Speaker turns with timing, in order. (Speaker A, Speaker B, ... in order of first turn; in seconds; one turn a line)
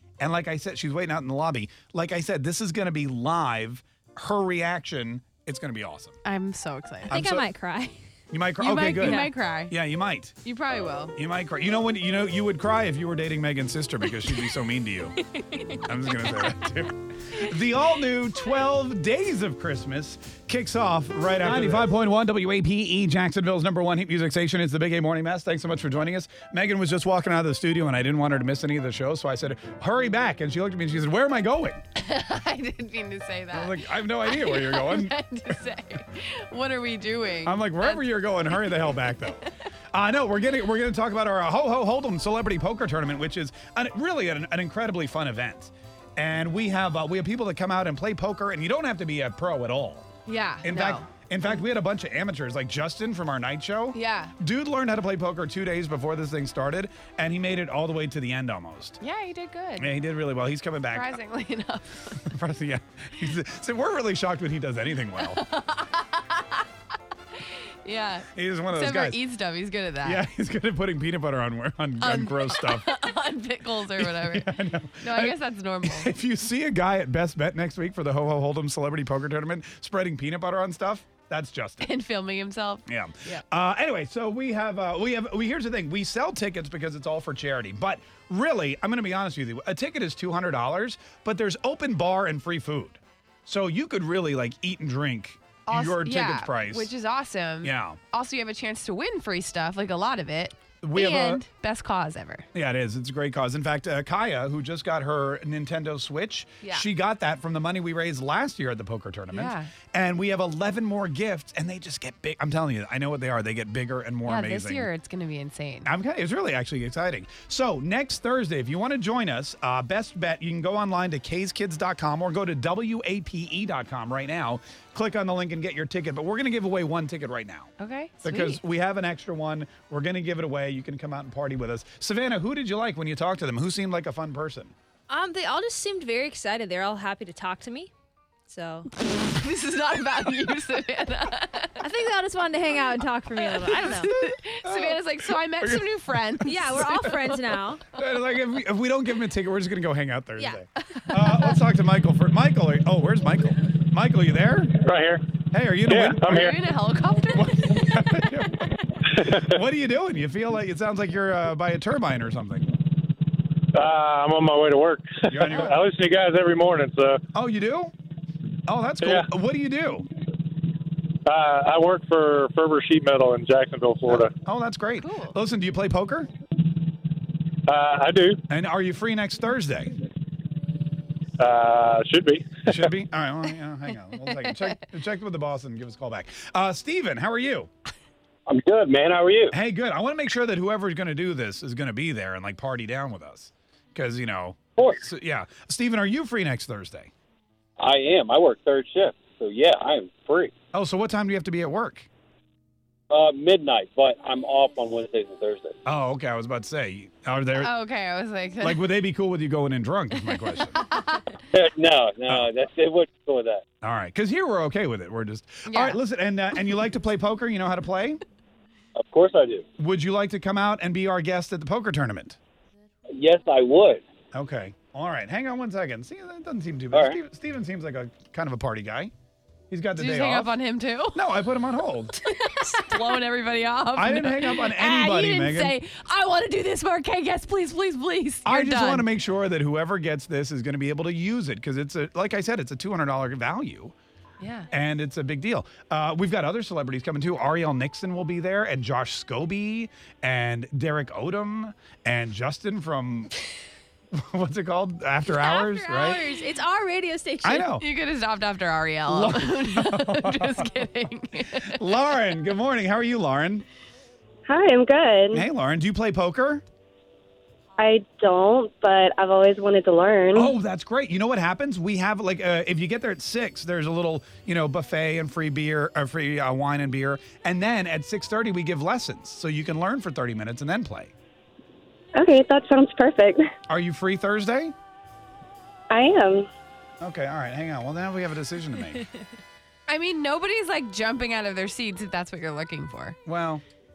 Speaker A: 0.2-6.2
Speaker B: 6.2-7.2
Speaker C: 7.1-8.0
Speaker A: 7.1-7.5
Speaker A: 8.3-10.3
Speaker B: 8.6-11.2
Speaker C: 9.0-9.3
Speaker A: 11.2-15.2
Speaker A: 15.8-31.8
Speaker B: 31.9-39.0
Speaker A: 33.5-35.2
Speaker A: 37.4-50.0
Speaker B: 50.2-51.1
Speaker A: 50.6-59.0
Speaker B: 53.9-54.3
Speaker B: 59.0-59.9
Speaker A: 59.8-61.2
Speaker B: 60.9-62.2
Speaker A: 62.1-65.4
Speaker B: 65.2-66.7
Speaker B: 67.5-70.2
Speaker A: 68.3-69.2
Speaker A: 70.0-72.9
Speaker B: 72.0-76.1
Speaker A: 73.9-81.9
Speaker B: 81.8-83.4
Speaker A: 82.9-96.9
Speaker B: 95.7-102.5
Speaker A: 97.6-98.0
Speaker A: 100.8-101.4
Speaker A: 102.5-114.9
Speaker B: 106.6-106.9
Speaker B: 109.3-109.7
Speaker B: 114.2-115.9
Speaker A: 115.8-134.7
Speaker B: 127.8-128.6
Speaker C: 135.1-137.9
Speaker C: 138.5-138.9
Speaker B: 139.0-141.8
Speaker C: 141.8-144.1
Speaker B: 143.4-147.6
Speaker A: 144.1-145.1
Speaker A: 145.6-145.9
Speaker C: 146.4-147.8
Speaker A: 147.9-154.7
Speaker B: 150.9-151.6
Speaker D: 154.8-155.2
Speaker A: 155.5-156.3
Speaker D: 155.8-156.6
Speaker B: 156.3-157.6
Speaker A: 157.3-162.7
Speaker D: 159.1-159.4
Speaker D: 163.7-167.2
Speaker A: 165.3-165.8
Speaker A: 167.3-167.9
Speaker A: 168.7-170.1
Speaker D: 169.0-169.3
Speaker D: 171.2-174.3
Speaker A: 174.1-176.3
Speaker B: 175.0-175.3
Speaker D: 177.7-178.4
Speaker A: 178.5-179.9
Speaker D: 181.4-182.9
Speaker A: 182.6-187.7
Speaker B: 184.2-184.6
Speaker E: 188.5-189.5
Speaker A: 189.5-197.1
Speaker E: 194.8-195.1
Speaker E: 197.8-200.5
Speaker A: 200.7-202.1
Speaker E: 203.1-205.8
Speaker A: 205.8-207.7
Speaker B: 207.6-208.8
Speaker A: 208.6-210.8
Speaker B: 210.8-211.2
Speaker E: 211.5-213.6
Speaker A: 213.8-218.2
Speaker B: 215.7-216.0
Speaker E: 218.9-219.6
Speaker A: 219.8-222.4
Speaker E: 223.1-224.0
Speaker A: 224.3-229.1
Speaker E: 226.9-227.2
Speaker A: 229.7-230.6
Speaker B: 230.0-231.2
Speaker A: 231.1-232.2
Speaker B: 232.3-239.1
Speaker A: 233.9-235.8
Speaker A: 238.4-243.9
Speaker B: 244.4-244.7
Speaker A: 244.7-253.3
Speaker A: 254.1-256.3
Speaker C: 255.2-257.7
Speaker A: 257.4-257.8
Speaker B: 257.8-261.8
Speaker A: 259.1-260.7
Speaker A: 261.6-263.6
Speaker F: 264.5-265.4
Speaker A: 265.3-266.6
Speaker F: 267.8-270.5
Speaker A: 270.3-281.1
Speaker F: 282.1-283.4
Speaker A: 283.7-284.7
Speaker F: 285.9-286.5
Speaker A: 287.0-289.0
Speaker B: 289.9-293.2
Speaker A: 293.2-293.6